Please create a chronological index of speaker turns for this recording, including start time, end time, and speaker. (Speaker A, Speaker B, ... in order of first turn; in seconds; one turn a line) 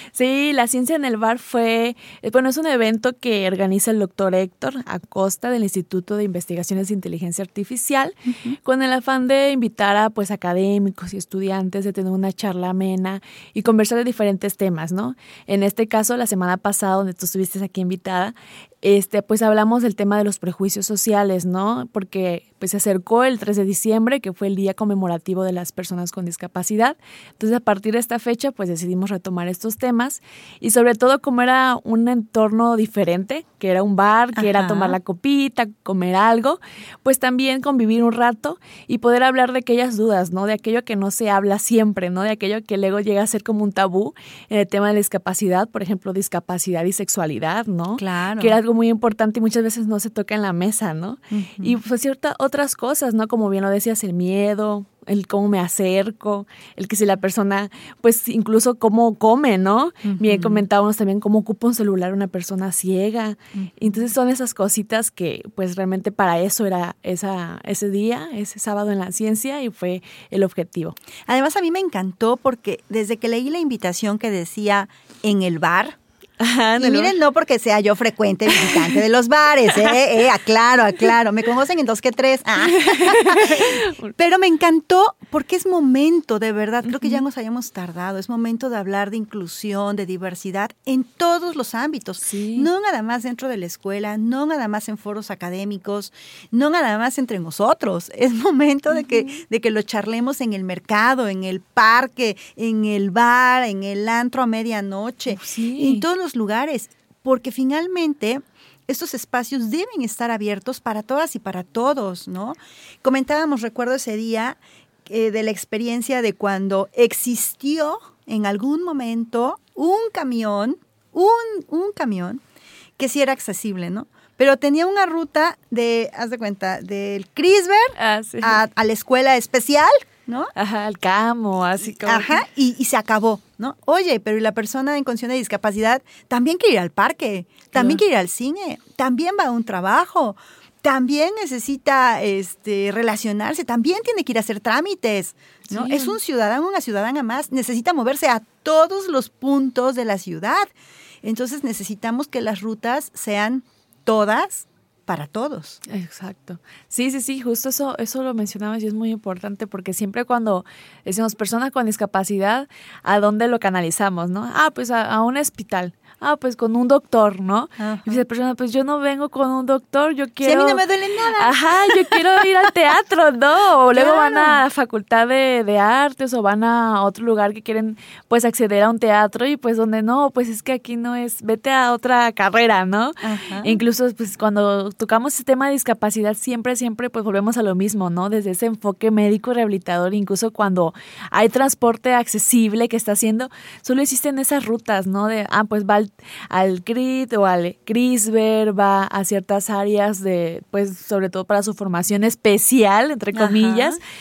Speaker A: 0.1-71.0
Speaker B: 8.2-8.6
Speaker B: 34.3-35.0
Speaker B: 48.0-48.6
Speaker B: 51.3-51.8
Speaker B: 60.0-60.6
Speaker B: 71.2-76.0
Speaker A: 76.4-77.1
Speaker B: 76.8-122.4
Speaker A: 82.6-84.1
Speaker A: 86.9-87.2
Speaker A: 92.2-92.7
Speaker A: 105.3-106.0
Speaker B: 123.0-130.5
Speaker A: 128.0-128.6
Speaker A: 130.5-132.4
Speaker B: 131.9-150.7
Speaker A: 137.7-138.0
Speaker A: 145.7-146.2
Speaker B: 151.2-155.8
Speaker A: 155.8-204.0
Speaker B: 167.8-168.2
Speaker B: 170.4-172.2
Speaker B: 173.9-174.6
Speaker B: 183.2-183.8
Speaker B: 203.3-204.0